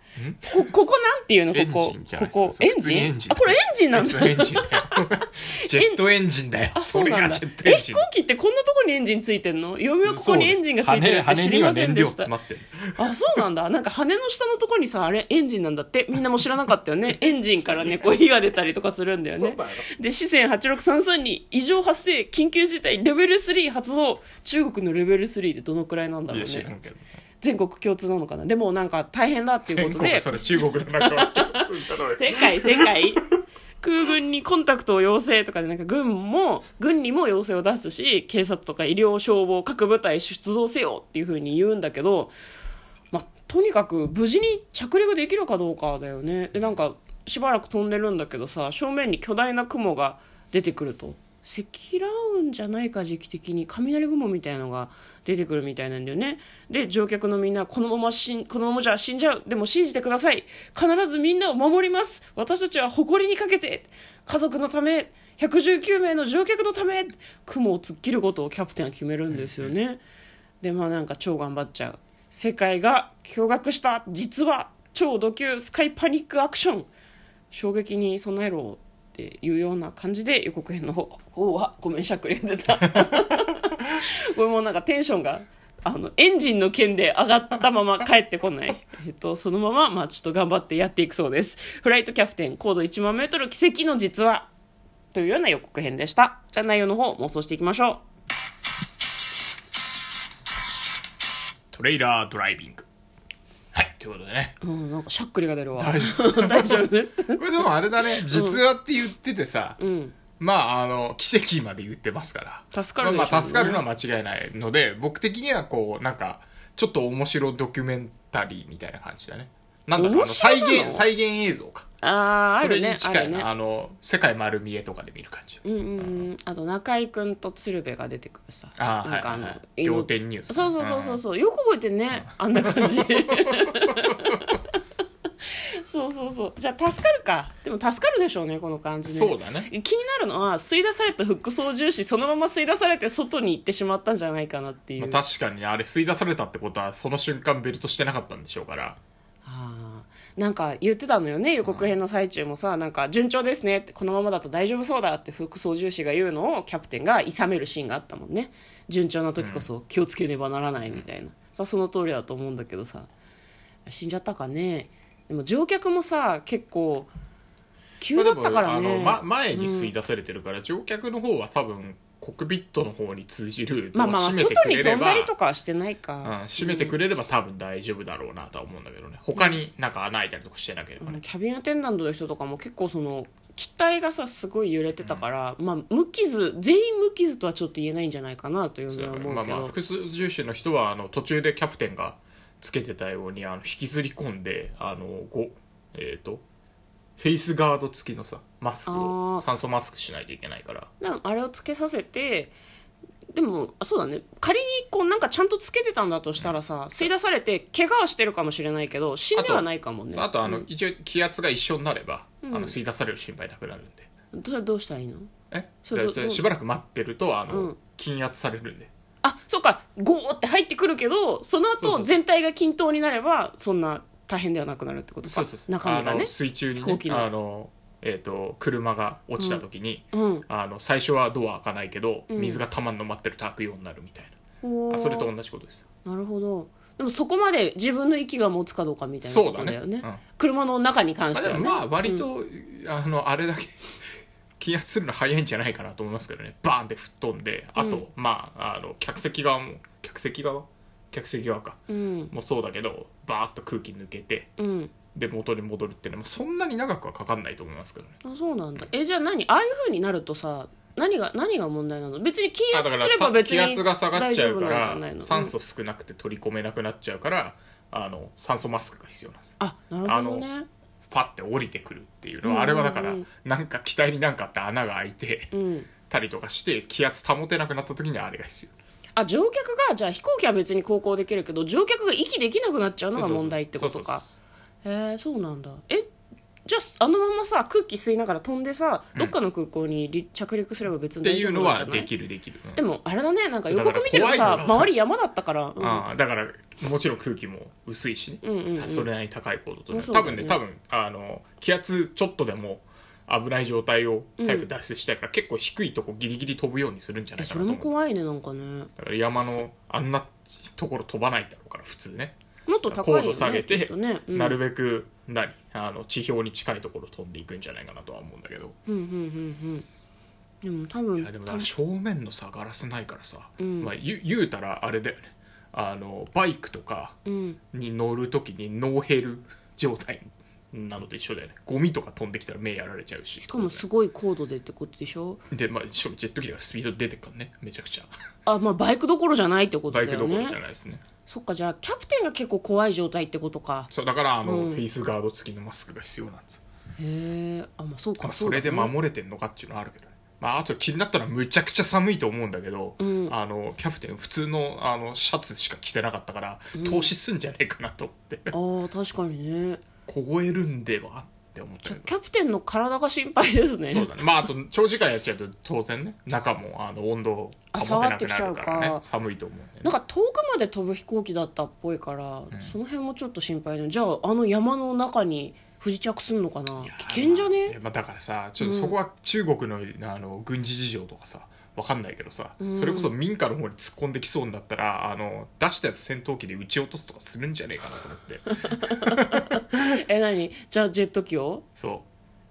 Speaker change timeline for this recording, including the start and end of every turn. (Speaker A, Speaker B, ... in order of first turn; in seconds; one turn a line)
Speaker A: 0.2-0.7
Speaker B: 0.4-6.0
Speaker A: 1.5-8.1
Speaker B: 6.8-12.3
Speaker A: 10.1-13.1
Speaker B: 13.0-26.7
Speaker A: 17.6-18.1
Speaker A: 19.3-19.9
Speaker A: 26.3-27.1
Speaker B: 27.4-33.2
Speaker A: 29.7-33.0
Speaker B: 33.8-42.3
Speaker B: 43.1-70.0
Speaker A: 69.3-69.7
Speaker B: 70.6-76.9
Speaker B: 77.5-94.5
Speaker B: 95.1-98.0
Speaker A: 101.7-102.9
Speaker A: 103.7-104.6
Speaker B: 104.6-108.6
Speaker A: 105.8-109.8
Speaker B: 109.8-110.2
Speaker A: 110.4-121.9
Speaker B: 112.7-113.8
Speaker B: 120.0-121.1
Speaker B: 122.0-123.5
Speaker A: 122.6-126.3
Speaker B: 125.6-134.6
Speaker A: 128.8-131.2
Speaker A: 132.2-134.6
Speaker B: 135.5-145.2
Speaker A: 139.1-139.7
Speaker A: 145.0-149.0
Speaker B: 149.4-163.1
Speaker A: 151.6-151.9
Speaker A: 159.4-159.7
Speaker B: 163.9-167.1
Speaker B: 168.0-169.9
Speaker A: 168.2-175.3
Speaker B: 173.9-177.0
Speaker A: 176.2-181.2
Speaker B: 181.0-189.7
Speaker A: 185.0-185.2
Speaker A: 188.9-196.4
Speaker A: 197.2-200.9
Speaker B: 198.9-199.4
Speaker B: 201.0-202.5
Speaker B: 203.3-210.7
Speaker A: 206.4-207.1
Speaker A: 209.3-214.1
Speaker B: 212.4-212.8
Speaker B: 214.3-215.3
Speaker A: 215.5-218.9
Speaker B: 215.9-216.4
Speaker B: 217.5-217.8
Speaker B: 219.2-227.3
Speaker A: 221.8-222.2
Speaker A: 225.2-234.3
Speaker B: 229.4-229.6
Speaker B: 230.1-230.4
Speaker B: 232.3-232.6
Speaker B: 234.6-235.3
Speaker A: 234.9-235.9
Speaker B: 236.1-242.3
Speaker A: 239.2-240.2
Speaker A: 241.3-254.5
Speaker B: 247.8-248.0
Speaker B: 251.9-252.3
Speaker B: 254.6-254.9
Speaker A: 255.1-258.2
Speaker B: 258.2-265.5
Speaker A: 262.7-270.5
Speaker B: 269.6-270.7
Speaker A: 271.1-275.5
Speaker B: 272.4-273.3
Speaker B: 275.5-275.9
Speaker A: 276.1-278.7
Speaker B: 279.2-284.2
Speaker A: 283.1-284.4
Speaker B: 284.8-286.1
Speaker B: 286.7-292.1
Speaker A: 291.2-292.8
Speaker B: 292.8-296.1
Speaker A: 293.6-294.9
Speaker A: 295.8-307.9
Speaker B: 298.4-299.1
Speaker B: 299.9-300.6
Speaker B: 304.4-304.7
Speaker B: 307.4-308.9
Speaker A: 309.0-318.8
Speaker B: 312.7-314.6
Speaker B: 318.9-319.9
Speaker B: 320.6-321.7
Speaker A: 321.2-325.2
Speaker B: 323.6-323.9
Speaker A: 325.7-327.2
Speaker B: 327.3-327.6
Speaker A: 327.7-333.9
Speaker B: 333.4-335.4
Speaker A: 335.5-338.1
Speaker B: 338.5-340.6
Speaker A: 339.9-341.0
Speaker B: 341.3-343.9
Speaker A: 343.9-346.6
Speaker B: 344.4-344.8
Speaker B: 347.0-348.9
Speaker A: 348.2-358.5
Speaker B: 353.0-353.3
Speaker B: 356.8-357.1
Speaker B: 358.5-359.8
Speaker A: 360.1-362.1
Speaker B: 361.9-364.2
Speaker A: 363.9-369.9
Speaker B: 367.7-369.0
Speaker B: 369.8-377.8
Speaker A: 372.5-372.8
Speaker A: 376.8-389.8
Speaker B: 378.6-378.9
Speaker B: 382.6-383.1
Speaker B: 388.7-391.6
Speaker A: 391.8-392.1